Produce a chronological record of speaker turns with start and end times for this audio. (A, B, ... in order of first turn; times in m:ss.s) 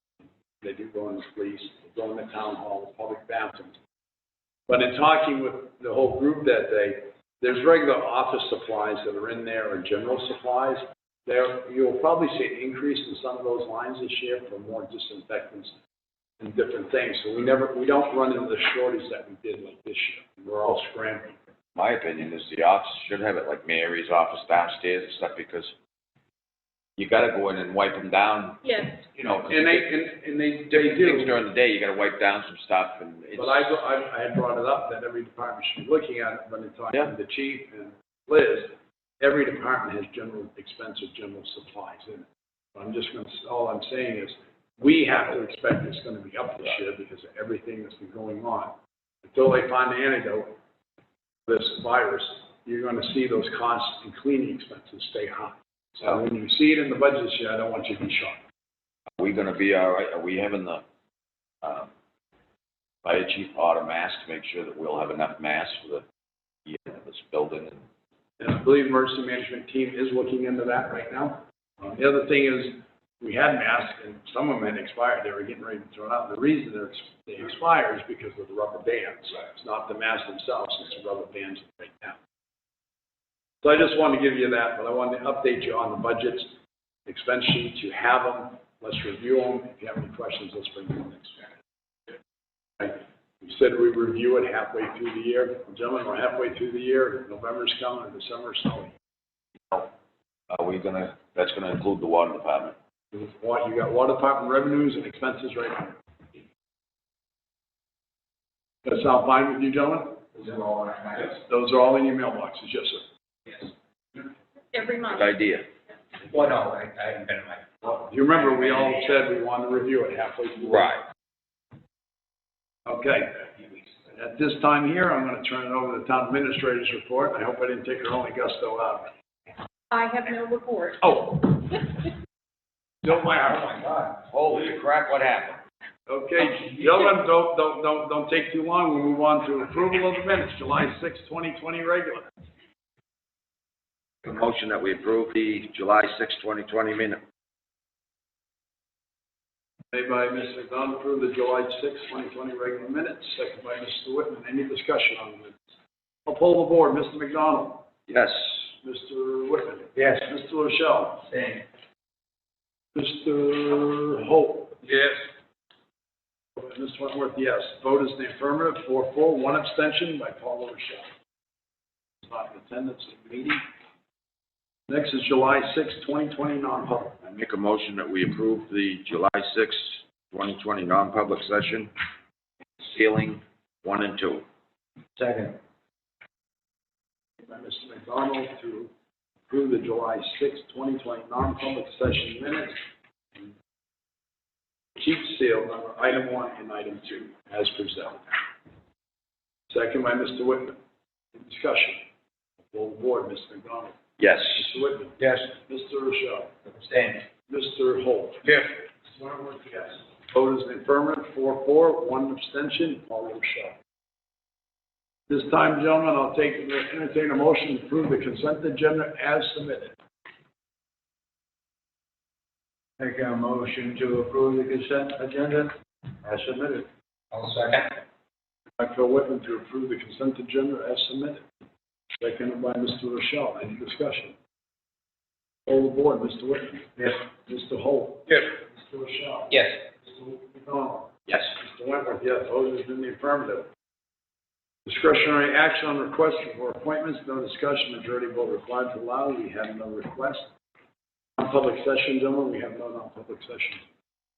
0:00.6-0:03.8 A
0:04.7-0:15.8 A
0:16.4-0:21.4 A
0:21.8-0:25.7 B
0:27.0-0:29.8 B
0:28.6-0:29.0 C
0:29.4-0:31.4 A
0:30.7-0:33.7 B
0:33.4-0:50.6 A
0:51.5-0:58.4 A
0:59.2-1:00.8 B
1:01.6-1:01.9 B
1:03.0-1:06.0 B
1:06.7-1:07.8 B
1:08.4-1:22.2 A
1:23.6-1:26.5 A
1:27.1-1:31.5 A
1:32.8-1:38.9 A
1:40.5-1:42.8 B
1:43.1-1:46.0 A
1:48.8-1:50.3 A
1:50.4-1:51.3 D
1:51.3-1:53.1 A
1:54.7-1:55.3 C
1:55.1-1:55.7 B
1:56.2-1:58.0 D
1:58.0-2:00.9 A
2:00.7-2:01.0 B
2:02.9-2:03.5 A
2:04.1-2:09.1 A
2:09.9-2:11.0 C
2:11.0-2:11.9 A
2:13.0-2:14.2 A
2:14.3-2:15.6 B
2:16.1-2:22.3 A
2:24.2-2:27.2 B
2:29.9-2:35.6 A
2:36.3-2:37.9 A
2:38.1-2:38.7 B
2:38.8-2:41.3 A
2:40.0-2:40.3 D
2:41.3-2:41.6 D
2:43.0-2:45.2 A
2:46.6-2:51.1 A
2:52.2-2:53.6 A
2:54.9-2:57.2 A
2:57.2-3:01.9 B
3:02.8-3:04.4 B
3:05.2-3:05.6 D
3:07.4-3:08.9 A
3:09.5-3:12.8 A
3:15.0-3:18.4 A
3:19.7-3:20.8 A
3:21.3-3:22.0 A
3:22.7-3:24.0 A
3:24.2-3:24.7 B
3:24.5-3:26.5 A
3:25.2-3:25.5 D
3:26.7-3:27.2 D
3:27.5-3:28.5 A
3:29.0-3:33.8 A
3:35.3-3:40.0 A
3:43.0-3:45.7 D
3:46.2-3:48.0 D
3:48.8-3:51.4 A
3:52.2-3:54.4 A
3:55.7-4:03.7 A
4:04.9-4:10.5 A
4:11.4-4:13.8 A